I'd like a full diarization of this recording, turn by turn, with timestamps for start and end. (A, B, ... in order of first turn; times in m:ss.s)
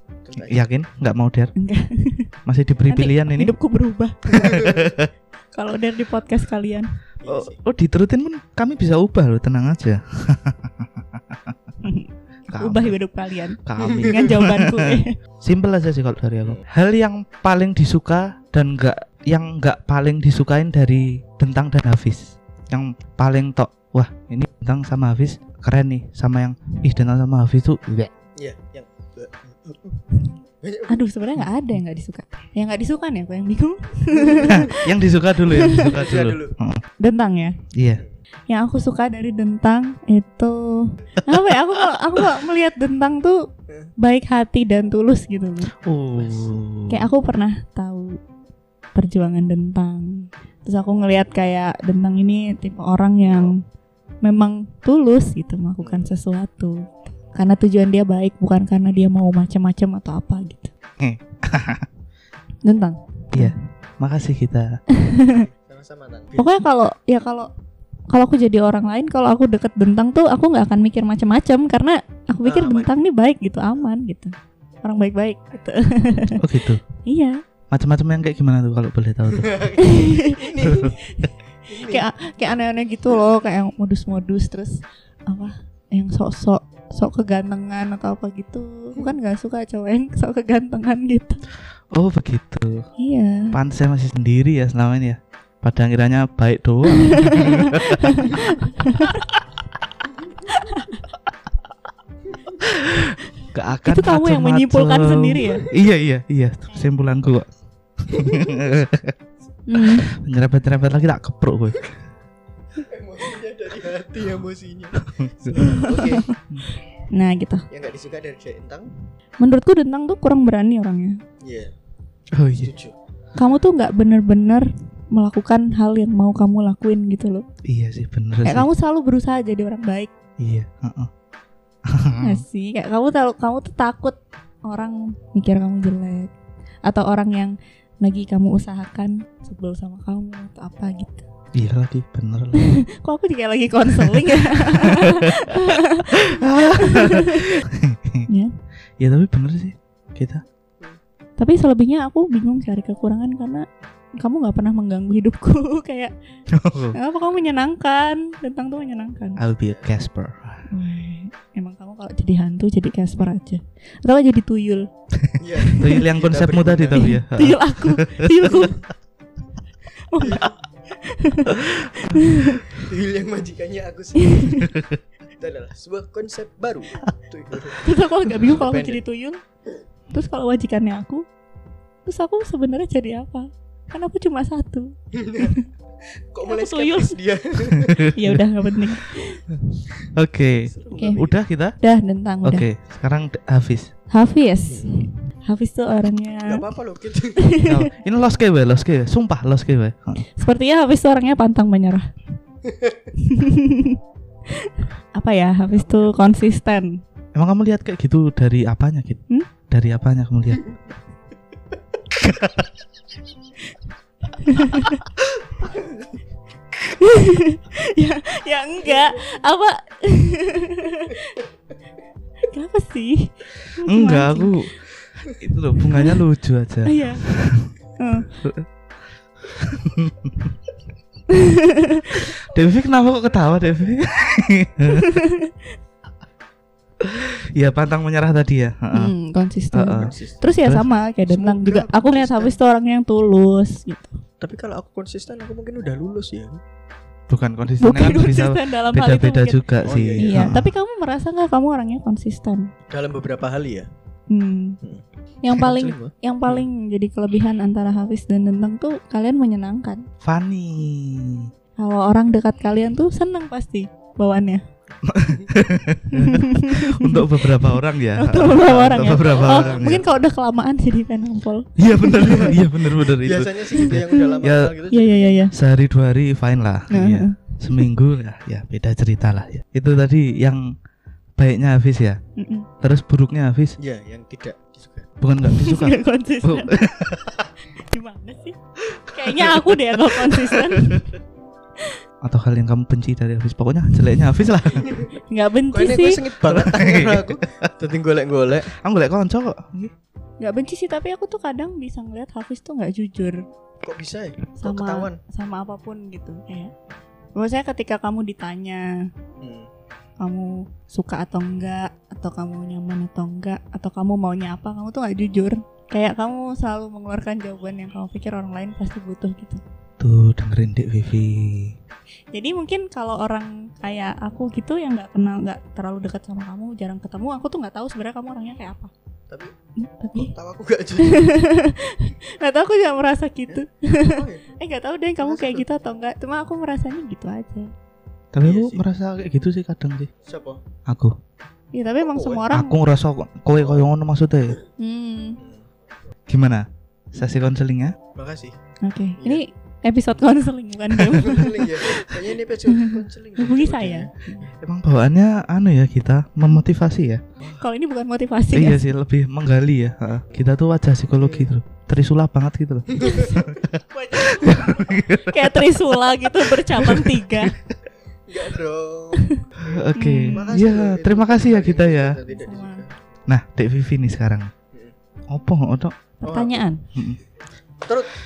0:00.2-0:00.7 A
0:00.4-0:01.5 B
0:01.6-0:02.3 C
0:02.4-0:03.5 B
0:02.9-0:04.7 C
0:04.3-0:04.9 A
0:04.3-0:05.1 B
0:05.5-0:06.9 C
0:07.2-0:07.6 A
0:07.3-0:11.5 B
0:11.8-0:15.2 C
0:12.5-0:13.0 B
0:13.6-0:28.1 B
0:13.8-0:14.2 A
0:28.4-0:30.0 A
0:30.6-0:31.0 A
0:30.9-0:34.9 C
0:34.1-0:34.7 A
0:34.4-0:36.8 B
0:35.5-0:35.9 C
0:35.8-0:36.5 A
0:37.0-0:37.6 C
0:37.7-0:38.0 B
0:38.5-0:43.4 C
0:44.0-0:45.7 C
0:45.8-0:47.1 B
0:46.2-0:46.5 A
0:46.9-0:48.2 C
0:48.9-0:53.6 C
0:54.2-1:00.7 C
0:55.8-0:56.1 A
1:01.0-1:01.8 B
1:02.6-1:03.6 C
1:03.3-1:04.8 B
1:04.9-1:05.5 C
1:05.3-1:06.6 A
1:06.4-1:07.5 C
1:08.1-1:17.4 C
1:12.4-1:12.9 A
1:16.4-1:16.8 B
1:17.7-1:19.6 B
1:19.3-1:21.0 A
1:19.8-1:31.4 C
1:20.6-1:20.9 B
1:21.7-1:22.1 A
1:31.9-1:32.9 B
1:33.0-1:33.6 C
1:33.5-1:38.4 B
1:36.9-1:39.2 C
1:40.5-1:41.0 C
1:42.6-1:47.5 B
1:43.8-1:45.6 C
1:48.0-1:49.1 B
1:48.1-1:48.6 A
1:49.7-1:50.1 C
1:49.7-1:52.0 B
1:52.8-1:56.3 A
1:55.0-1:55.6 B
1:55.6-1:56.3 C
1:57.1-1:57.6 C
1:57.7-1:58.9 A
1:59.4-2:01.2 C
2:01.4-2:01.7 A
2:02.3-2:02.7 B
2:02.5-2:03.0 A
2:03.4-2:07.4 C
2:07.6-2:08.7 B
2:08.4-2:10.1 C
2:10.4-2:11.1 B
2:11.9-2:12.4 B
2:12.2-2:16.3 C
2:16.8-2:21.2 C
2:21.5-2:22.8 B
2:22.6-2:27.6 C
2:24.0-2:28.3 B
2:29.0-2:30.4 B
2:31.4-2:33.6 C
2:34.2-2:36.1 C
2:36.5-2:37.0 B
2:36.9-2:39.4 C
2:39.4-2:40.6 B
2:39.6-2:39.9 A
2:40.7-2:44.9 C
2:45.2-2:48.7 B
2:45.4-2:47.1 A
2:45.6-2:46.0 C
2:47.0-2:48.8 C
2:49.9-2:52.6 C
2:50.2-2:50.6 A
2:51.4-2:52.2 B
2:52.4-2:54.7 A
2:54.2-2:54.7 C
2:54.6-2:55.0 B
2:55.4-2:59.0 A
2:57.8-2:59.4 C
3:00.1-3:01.2 C
3:02.0-3:05.6 C
3:05.1-3:05.6 A
3:06.3-3:08.1 A
3:06.5-3:07.2 C
3:07.8-3:08.4 B
3:08.1-3:09.4 C
3:10.1-3:11.7 B
3:10.5-3:11.4 A
3:11.0-3:11.2 C
3:11.8-3:12.6 C
3:12.4-3:13.9 B
3:14.1-3:16.6 C
3:14.7-3:15.0 A
3:16.4-3:17.6 A
3:17.4-3:17.9 C
3:17.6-3:20.2 B
3:20.4-3:22.1 C
3:22.6-3:23.1 A
3:23.2-3:27.0 C
3:25.7-3:26.3 A
3:27.3-3:30.7 B
3:32.2-3:32.7 B
3:34.4-3:35.0 C
3:35.7-3:36.0 A
3:36.8-3:41.4 C
3:38.8-3:39.2 A
3:42.4-3:44.7 C
3:43.8-3:44.7 B
3:45.3-3:47.7 B
3:45.9-3:46.2 C
3:46.8-3:47.2 C
3:48.0-3:48.4 C
3:48.4-3:48.7 B
3:49.4-3:50.5 B
3:51.3-3:52.2 C
3:52.2-3:55.1 B
3:54.9-3:55.6 C
3:57.0-3:59.1 B
3:58.9-4:04.2 C
3:59.7-4:00.1 B
4:00.0-4:00.4 A
4:01.3-4:02.6 A
4:04.4-4:06.6 A
4:07.3-4:10.7 B
4:07.8-4:09.7 C
4:09.8-4:10.6 A
4:10.2-4:12.7 C
4:12.9-4:13.9 A
4:14.3-4:14.8 C
4:14.8-4:16.7 A
4:15.4-4:20.0 C
4:20.2-4:21.5 B
4:21.8-4:24.6 C
4:25.0-4:30.0 B
4:26.1-4:32.6 C
4:28.7-4:30.1 A
4:31.8-4:34.7 B
4:32.2-4:35.5 A
4:33.8-4:35.5 C
4:35.5-4:40.7 B
4:36.9-4:37.9 C
4:41.4-4:42.2 B
4:42.4-4:42.7 C
4:42.8-4:43.8 B
4:43.8-4:45.1 A
4:45.2-4:47.3 B
4:45.4-4:51.1 C
4:52.2-4:55.0 B
4:54.7-4:55.2 A
4:55.2-4:56.2 C
4:55.7-4:58.7 A
4:56.5-4:57.7 B
4:58.7-4:59.9 B
5:00.4-5:03.4 C
5:03.8-5:05.2 A
5:04.6-5:06.7 C
5:07.3-5:09.1 C
5:09.4-5:09.7 A
5:10.2-5:19.6 C
5:20.0-5:21.8 B
5:22.3-5:28.9 C
5:29.8-5:30.3 C
5:30.1-5:31.4 A
5:31.0-5:37.7 C
5:33.5-5:34.6 A
5:35.2-5:35.6 A
5:38.3-5:40.1 B
5:38.4-5:38.8 A
5:40.2-5:40.6 A
5:40.8-5:41.1 B
5:41.7-5:42.8 C
5:42.0-5:42.5 A
5:42.5-5:44.6 B
5:43.6-5:43.9 A
5:44.8-5:45.4 C
5:45.4-5:45.7 A
5:46.3-5:48.0 B
5:48.1-5:48.5 A
5:48.8-5:54.5 C
5:49.2-5:49.4 A
5:51.0-5:54.5 A
5:54.6-5:57.2 B
5:57.4-5:57.6 A
5:57.6-5:58.8 C
5:58.5-6:05.6 B
6:01.1-6:01.5 A
6:02.9-6:03.5 A
6:03.0-6:07.5 C
6:08.3-6:13.0 A
6:09.6-6:12.2 B
6:10.0-6:10.6 C
6:12.3-6:12.8 C
6:13.3-6:14.5 B
6:15.3-6:16.0 B
6:16.2-6:16.6 A
6:16.2-6:16.8 C
6:16.9-6:17.2 B
6:17.8-6:18.1 A